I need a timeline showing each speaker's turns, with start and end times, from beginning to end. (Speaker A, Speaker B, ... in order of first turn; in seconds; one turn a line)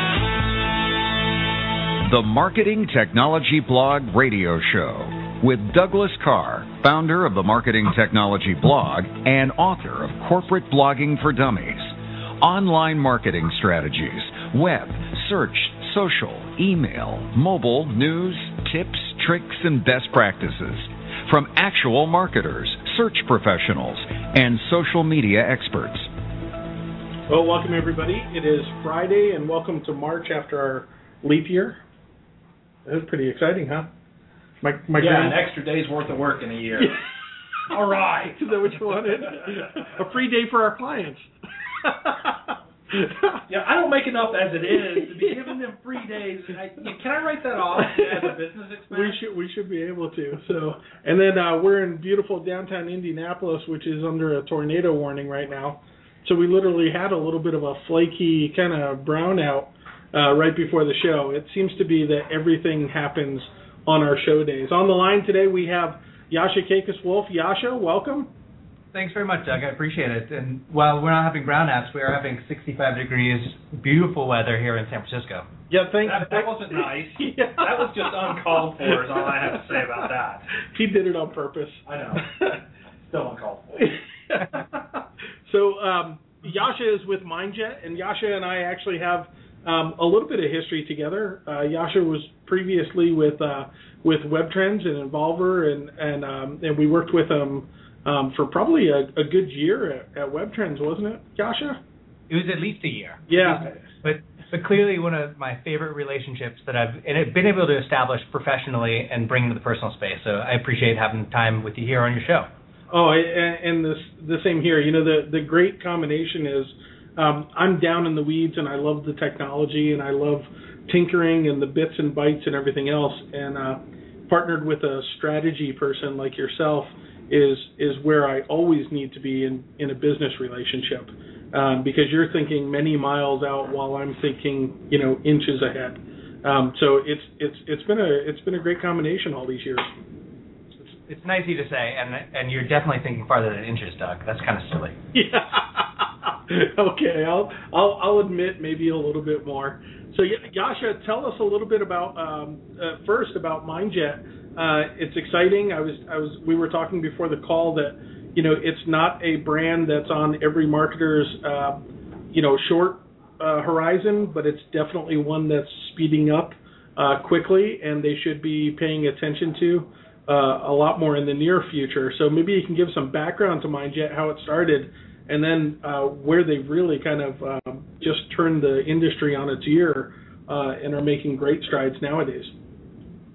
Speaker A: 2.0-26.1
Speaker B: 27.3-31.8
Speaker B: 32.8-33.9
Speaker B: 34.6-35.5
Speaker C: 35.0-36.9
Speaker B: 36.8-37.0
Speaker B: 37.7-41.3
Speaker C: 37.7-38.1
Speaker B: 41.8-43.4
Speaker C: 43.5-49.1
Speaker B: 45.1-45.5
Speaker B: 47.8-68.3
Speaker D: 68.9-75.5
Speaker B: 75.7-78.0
Speaker C: 76.1-80.4
Speaker B: 79.1-79.4
Speaker B: 80.7-82.6
Speaker C: 83.1-83.7
Speaker B: 83.8-84.7
Speaker B: 85.5-101.8
Speaker D: 102.3-112.5
Speaker B: 103.3-103.8
Speaker B: 112.9-139.9
Speaker D: 140.8-145.0
Speaker B: 145.1-161.8
Speaker B: 162.3-182.5